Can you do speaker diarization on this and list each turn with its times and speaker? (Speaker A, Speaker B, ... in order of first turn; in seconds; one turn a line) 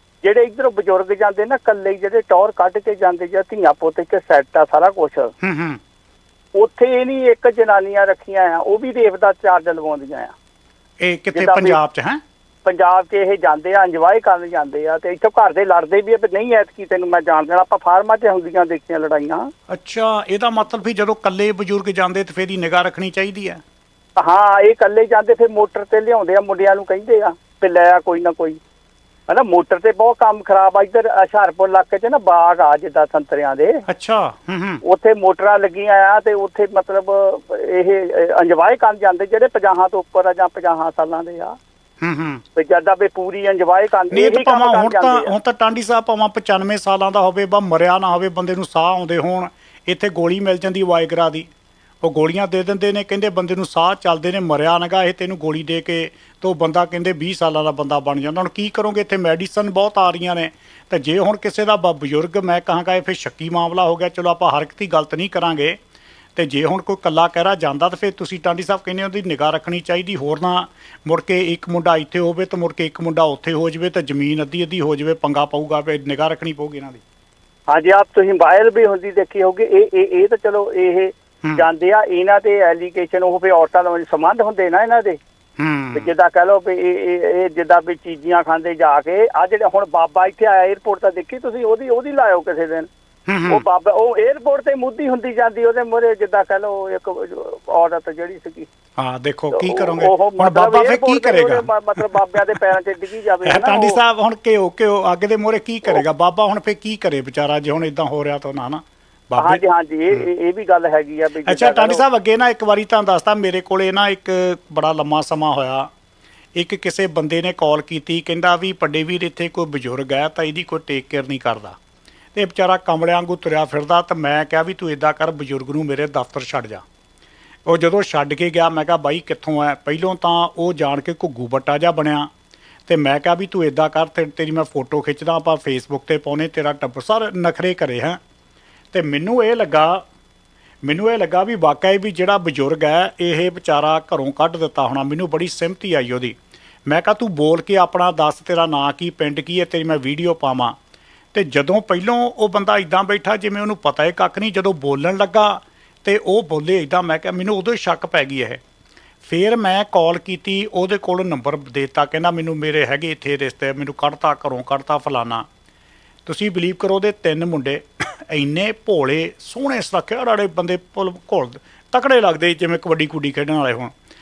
Speaker A: 0.2-5.3
Speaker B: 5.4-5.8
Speaker A: 6.5-10.3
Speaker B: 11.0-12.2
Speaker A: 11.3-11.8
Speaker A: 12.7-19.5
Speaker B: 19.7-23.6
Speaker A: 24.2-28.6
Speaker A: 29.3-33.8
Speaker B: 33.9-34.8
Speaker A: 34.8-41.6
Speaker B: 42.0-42.4
Speaker A: 42.5-45.3
Speaker B: 44.1-51.5
Speaker B: 52.0-65.8
Speaker B: 66.4-77.0
Speaker A: 77.7-85.2
Speaker B: 85.6-86.1
Speaker A: 85.9-92.9
Speaker B: 93.3-93.6
Speaker A: 93.5-98.7
Speaker B: 99.0-102.4
Speaker A: 99.5-104.0
Speaker B: 103.5-110.3
Speaker A: 109.4-112.0
Speaker B: 111.5-115.9
Speaker B: 116.5-121.8
Speaker B: 122.3-126.8
Speaker B: 127.7-132.3
Speaker B: 132.9-138.2
Speaker B: 138.9-140.0
Speaker B: 140.8-146.4
Speaker B: 146.9-150.8
Speaker B: 151.3-158.6
Speaker B: 159.2-165.5
Speaker B: 166.3-173.9